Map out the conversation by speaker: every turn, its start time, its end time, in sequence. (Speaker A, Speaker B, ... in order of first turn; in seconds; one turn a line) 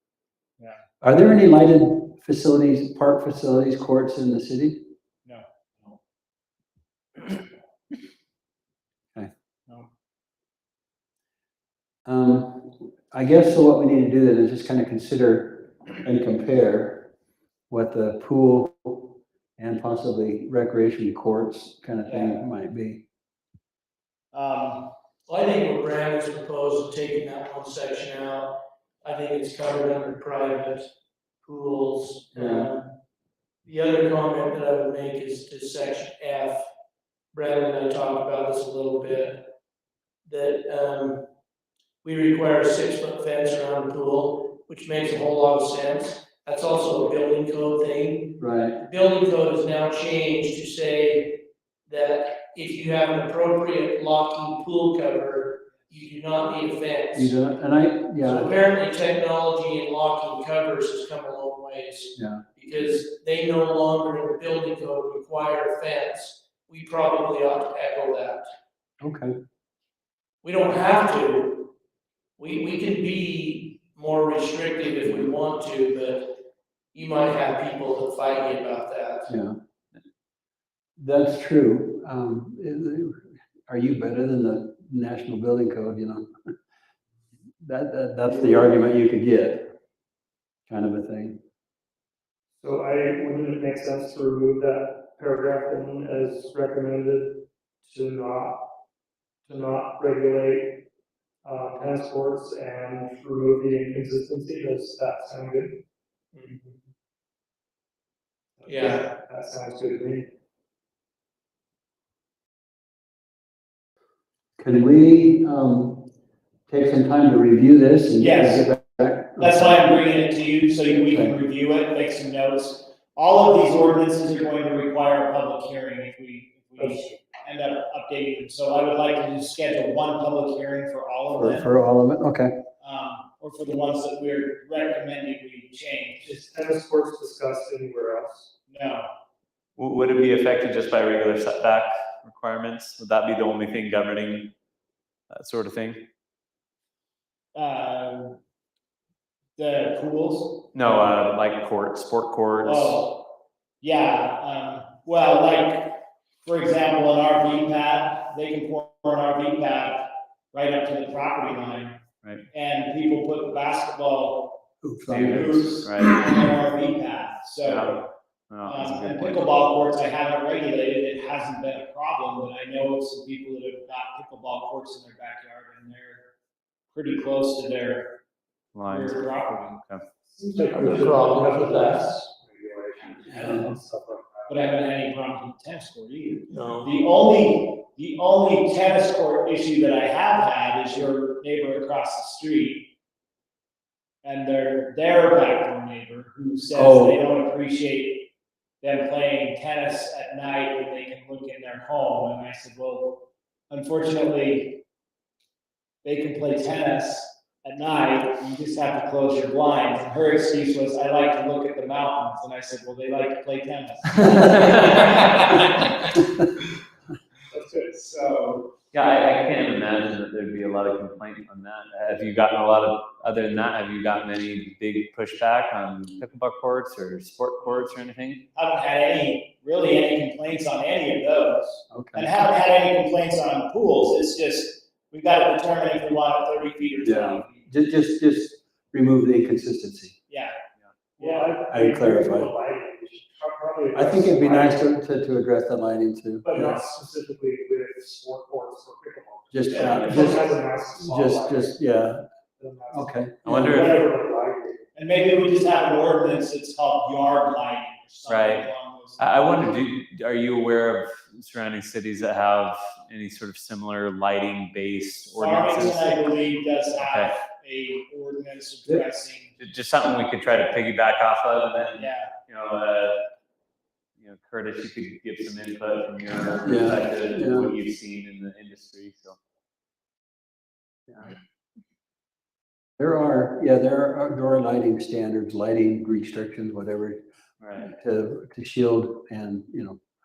Speaker A: 1.0-4.8
Speaker A: 12.1-17.1
Speaker A: 17.7-23.0
Speaker B: 22.0-22.4
Speaker B: 24.3-24.9
Speaker C: 25.3-30.9
Speaker C: 31.4-32.9
Speaker A: 32.3-32.7
Speaker C: 33.6-36.7
Speaker C: 37.3-39.5
Speaker C: 40.2-41.2
Speaker C: 42.0-57.4
Speaker A: 48.4-48.8
Speaker A: 57.1-58.5
Speaker C: 58.2-68.5
Speaker A: 62.1-62.4
Speaker A: 69.0-69.4
Speaker C: 70.4-71.7
Speaker C: 72.4-76.3
Speaker C: 76.9-79.3
Speaker A: 79.3-79.6
Speaker A: 81.0-86.5
Speaker A: 87.6-89.7
Speaker A: 90.7-91.4
Speaker D: 92.6-98.8
Speaker D: 99.5-100.8
Speaker D: 101.4-105.8
Speaker D: 108.6-110.3
Speaker C: 108.7-109.0
Speaker A: 114.6-116.1
Speaker A: 116.7-119.9
Speaker B: 118.2-118.7
Speaker B: 119.4-131.7
Speaker D: 126.8-127.2
Speaker A: 131.3-132.5
Speaker B: 132.8-136.3
Speaker D: 136.2-138.5
Speaker B: 138.7-139.1
Speaker E: 139.8-144.5
Speaker E: 145.3-146.1
Speaker B: 147.5-148.4
Speaker B: 149.6-150.7
Speaker E: 150.7-153.0
Speaker B: 152.6-153.3
Speaker B: 153.8-164.6
Speaker A: 164.8-165.8
Speaker B: 165.1-168.1
Speaker E: 165.1-166.1
Speaker E: 167.6-169.4
Speaker B: 168.6-176.3
Speaker B: 176.9-178.2
Speaker E: 178.7-179.2
Speaker B: 178.8-179.8
Speaker E: 179.8-180.0
Speaker D: 180.4-184.5
Speaker C: 180.7-182.1
Speaker A: 183.3-183.7
Speaker B: 184.5-192.9
Speaker C: 186.5-186.9
Speaker B: 194.2-198.3
Speaker A: 196.7-197.2
Speaker B: 198.8-204.8
Speaker B: 206.0-215.9
Speaker E: 214.4-215.4
Speaker D: 217.5-217.8
Speaker B: 217.7-218.7
Speaker E: 218.9-228.4
Speaker B: 228.5-237.7
Speaker A: 231.9-232.3
Speaker A: 237.0-240.2
Speaker B: 240.3-240.5
Speaker D: 241.2-244.9
Speaker B: 241.2-241.5
Speaker A: 241.7-242.5
Speaker A: 243.9-246.8
Speaker D: 246.4-251.8
Speaker A: 249.5-252.2
Speaker D: 252.6-254.8
Speaker A: 252.9-253.5
Speaker E: 253.4-253.9
Speaker B: 253.7-254.0
Speaker B: 254.9-259.8
Speaker E: 258.3-258.7
Speaker E: 259.2-266.1
Speaker B: 265.3-269.5
Speaker E: 267.0-267.4
Speaker E: 269.6-273.2
Speaker B: 271.9-272.3
Speaker E: 274.2-279.4
Speaker A: 276.6-277.7
Speaker A: 283.0-287.2
Speaker E: 287.6-287.9
Speaker A: 287.8-290.0